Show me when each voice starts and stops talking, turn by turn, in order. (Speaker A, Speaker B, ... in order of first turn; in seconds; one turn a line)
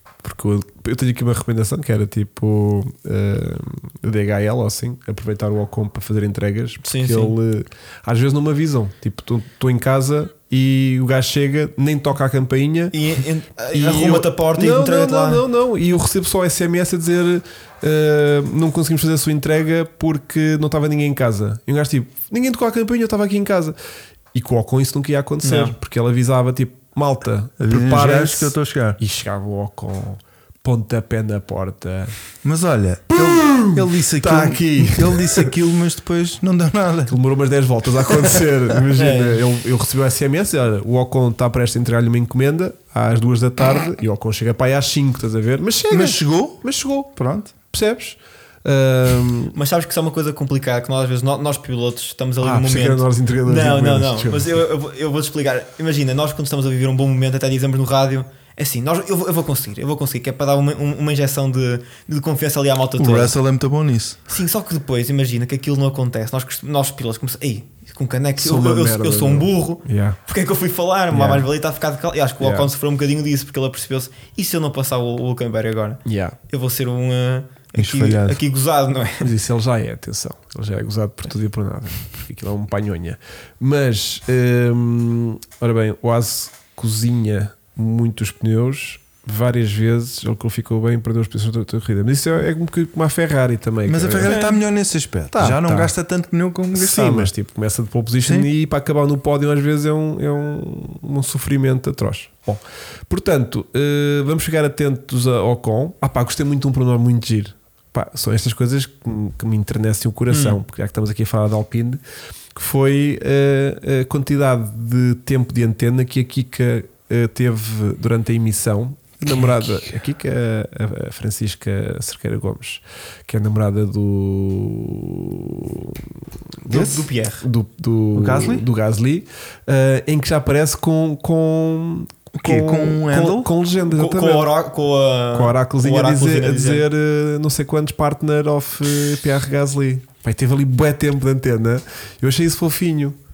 Speaker A: 0.2-13.0
Speaker B: 6.8-7.3
Speaker B: 12.9-15.4
Speaker A: 13.7-23.8
Speaker A: 24.3-32.1
Speaker B: 25.4-25.7
Speaker C: 27.6-29.0
Speaker C: 32.4-37.2
Speaker A: 33.1-35.5
Speaker A: 37.1-49.5
Speaker B: 38.9-39.4
Speaker C: 45.9-46.6
Speaker C: 47.1-47.5
Speaker B: 49.5-63.3
Speaker A: 52.4-54.6
Speaker C: 63.0-64.2
Speaker B: 64.3-79.3
Speaker A: 68.4-70.2
Speaker A: 71.1-71.5
Speaker A: 72.4-72.7
Speaker A: 76.0-76.4
Speaker C: 77.8-78.4
Speaker A: 79.2-94.4
Speaker C: 93.8-97.3
Speaker B: 94.2-94.6
Speaker A: 95.3-95.9
Speaker A: 96.7-112.0
Speaker C: 98.2-98.5
Speaker B: 110.3-110.6
Speaker A: 112.5-126.1
Speaker C: 119.2-119.9
Speaker B: 126.7-127.4
Speaker A: 126.7-134.5
Speaker C: 126.7-127.0
Speaker C: 128.1-128.7
Speaker C: 132.3-133.5
Speaker B: 133.8-136.8
Speaker A: 135.3-143.2